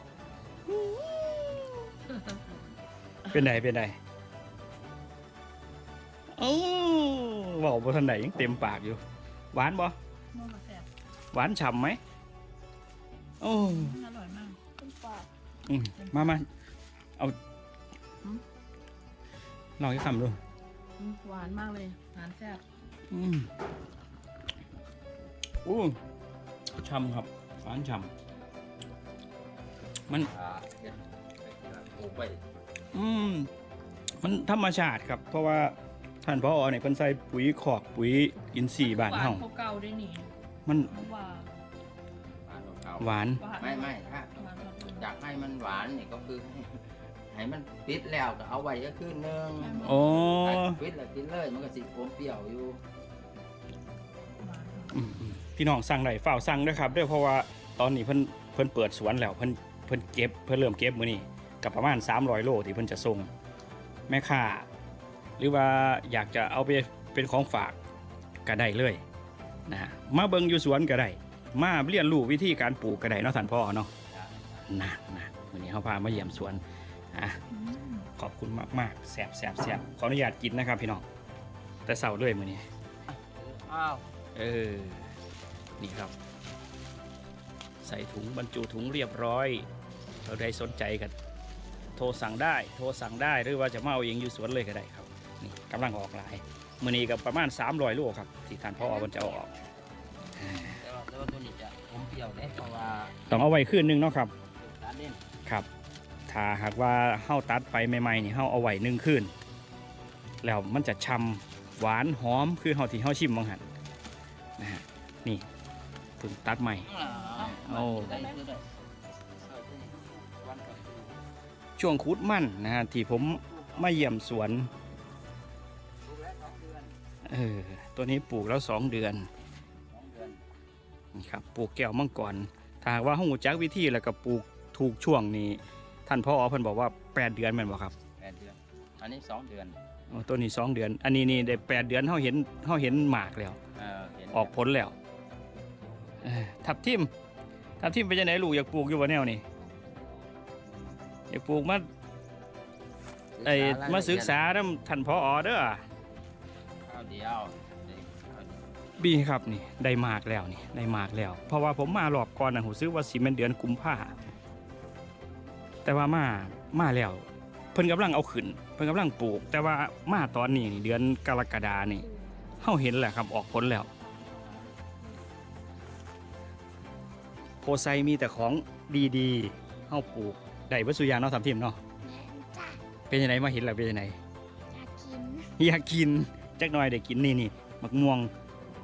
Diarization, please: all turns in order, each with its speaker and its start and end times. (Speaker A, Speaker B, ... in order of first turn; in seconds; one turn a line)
Speaker A: 0.7-1.9
Speaker A: 3.3-4.0
Speaker A: 6.4-9.0
Speaker A: 9.5-9.9
Speaker B: 10.3-10.9
Speaker A: 11.3-12.0
Speaker A: 13.4-14.0
Speaker B: 13.5-14.6
Speaker C: 14.8-15.3
Speaker A: 15.7-16.5
Speaker B: 16.0-16.4
Speaker A: 19.8-20.4
Speaker B: 21.0-22.6
Speaker A: 23.1-23.5
Speaker A: 25.6-26.0
Speaker A: 26.7-28.1
Speaker D: 30.1-32.4
Speaker A: 32.9-33.5
Speaker A: 34.2-39.4
Speaker B: 38.8-40.3
Speaker A: 40.6-40.9
Speaker D: 40.9-41.1
Speaker B: 40.9-41.5
Speaker D: 42.5-52.8
Speaker A: 43.0-43.4
Speaker B: 43.4-45.0
Speaker B: 49.6-50.4
Speaker A: 49.8-50.8
Speaker B: 54.4-54.9
Speaker A: 54.9-63.3
Speaker A: 64.1-64.7
Speaker A: 65.4-67.8
Speaker A: 68.5-69.0
Speaker A: 69.7-73.9
Speaker D: 74.1-74.7
Speaker A: 74.7-76.6
Speaker A: 77.1-77.4
Speaker B: 77.5-78.0
Speaker A: 78.2-81.0
Speaker A: 81.8-82.6
Speaker D: 83.1-84.1
Speaker A: 84.3-85.1
Speaker A: 85.8-86.1
Speaker A: 87.8-89.7
Speaker A: 90.2-91.1
Speaker A: 92.0-99.5
Speaker C: 98.9-99.3
Speaker A: 100.4-100.8
Speaker D: 100.7-103.3
Speaker A: 103.3-104.3
Speaker D: 104.5-105.2
Speaker A: 106.3-109.3
Speaker A: 110.4-113.6
Speaker A: 114.6-115.5
Speaker A: 116.2-116.9
Speaker D: 116.8-118.6
Speaker B: 117.2-118.4
Speaker A: 117.5-118.3
Speaker D: 119.3-121.2
Speaker A: 121.8-124.7
Speaker D: 123.1-124.2
Speaker D: 126.0-126.9
Speaker A: 127.2-129.3
Speaker D: 129.9-130.4
Speaker A: 131.1-137.9
Speaker D: 138.2-139.8
Speaker A: 140.1-143.6
Speaker D: 143.8-144.5
Speaker A: 144.3-144.9
Speaker A: 146.2-147.1
Speaker A: 147.8-149.4
Speaker D: 150.6-151.0
Speaker A: 151.3-151.8
Speaker D: 153.3-154.4
Speaker A: 153.4-155.8
Speaker D: 156.8-158.7
Speaker A: 159.0-164.2
Speaker A: 165.8-173.9
Speaker C: 174.1-174.6
Speaker A: 177.6-181.8
Speaker C: 182.0-182.8
Speaker A: 183.1-184.2
Speaker C: 184.7-185.5
Speaker A: 185.6-188.3